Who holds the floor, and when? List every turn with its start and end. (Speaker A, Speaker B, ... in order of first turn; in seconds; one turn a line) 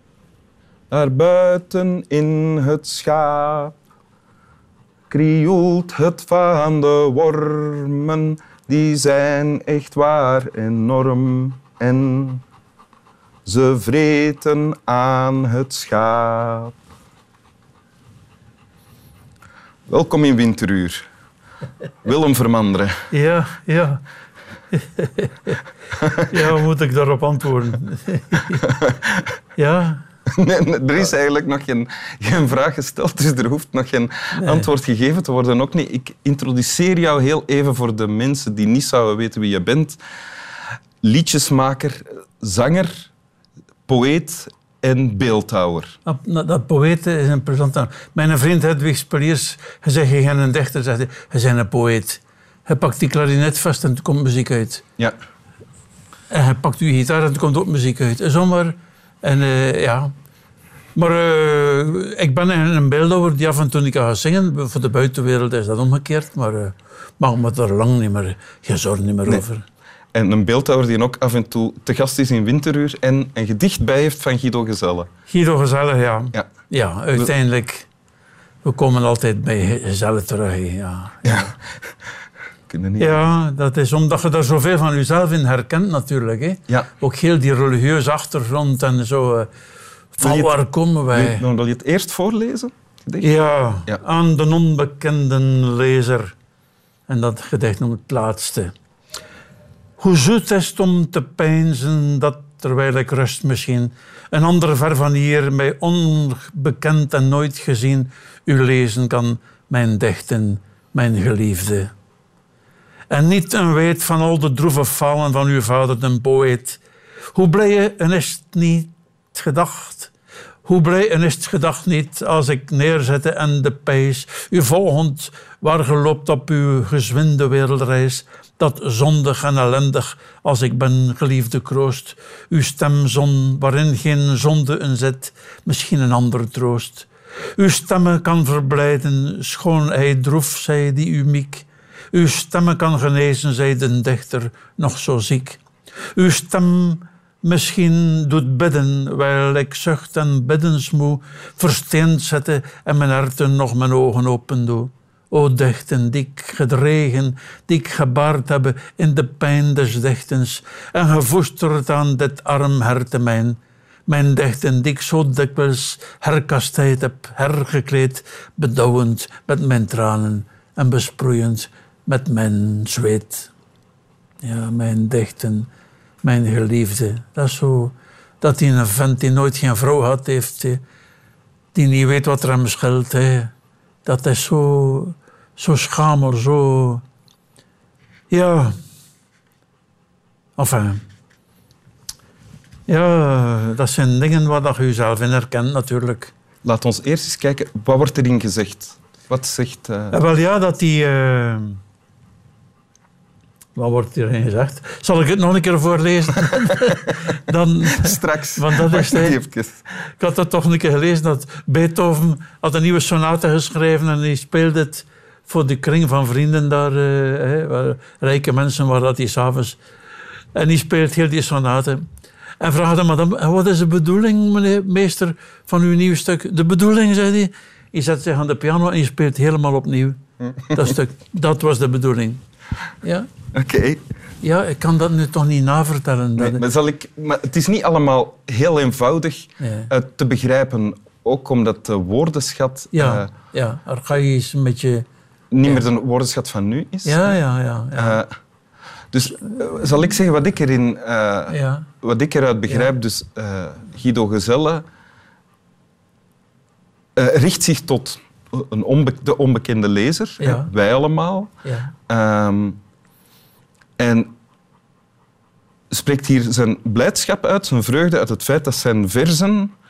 Speaker A: 0.9-3.8
Speaker A: 5.1-12.4
Speaker A: 13.4-16.7
Speaker A: 19.9-21.0
Speaker A: 22.0-23.0
Speaker B: 23.1-24.0
Speaker B: 24.7-25.6
Speaker B: 26.1-28.6
Speaker A: 28.6-29.2
Speaker B: 29.6-30.0
Speaker A: 30.3-40.0
Speaker B: 34.3-34.7
Speaker A: 41.0-43.1
Speaker A: 43.9-45.9
Speaker B: 46.0-54.8
Speaker B: 56.3-60.1
Speaker B: 60.9-69.6
Speaker A: 70.1-75.1
Speaker B: 75.3-77.9
Speaker B: 78.6-81.5
Speaker A: 81.2-81.5
Speaker A: 82.7-83.2
Speaker B: 83.0-89.5
Speaker B: 90.1-91.5
Speaker A: 90.2-90.6
Speaker A: 91.1-93.3
Speaker B: 93.2-96.3
Speaker B: 97.1-98.7
Speaker B: 100.0-111.9
Speaker B: 113.1-116.8
Speaker B: 117.3-120.1
Speaker B: 120.6-145.6
Speaker B: 146.1-173.5
Speaker B: 174.4-175.7
Speaker B: 176.2-180.8
Speaker B: 181.7-183.5
Speaker B: 184.1-187.0
Speaker B: 188.3-188.7
Speaker B: 190.6-191.0
Speaker B: 192.9-196.3
Speaker A: 196.6-200.2
Speaker B: 200.1-201.8
Speaker B: 203.7-209.4
Speaker A: 207.9-209.8
Speaker B: 210.0-219.8
Speaker B: 220.5-222.0
Speaker B: 222.6-230.2
Speaker A: 230.6-230.9
Speaker B: 230.7-232.4
Speaker B: 233.0-233.3
Speaker A: 233.5-234.0
Speaker B: 234.4-236.6
Speaker A: 236.4-243.3
Speaker B: 239.6-239.9
Speaker B: 242.9-245.0
Speaker A: 245.5-247.4
Speaker B: 247.0-248.2
Speaker A: 247.9-248.3
Speaker A: 249.1-254.8
Speaker B: 251.5-251.9
Speaker A: 257.1-261.5
Speaker B: 260.4-260.7
Speaker B: 261.6-261.9
Speaker A: 262.1-262.8
Speaker A: 264.0-264.3
Speaker A: 265.9-269.7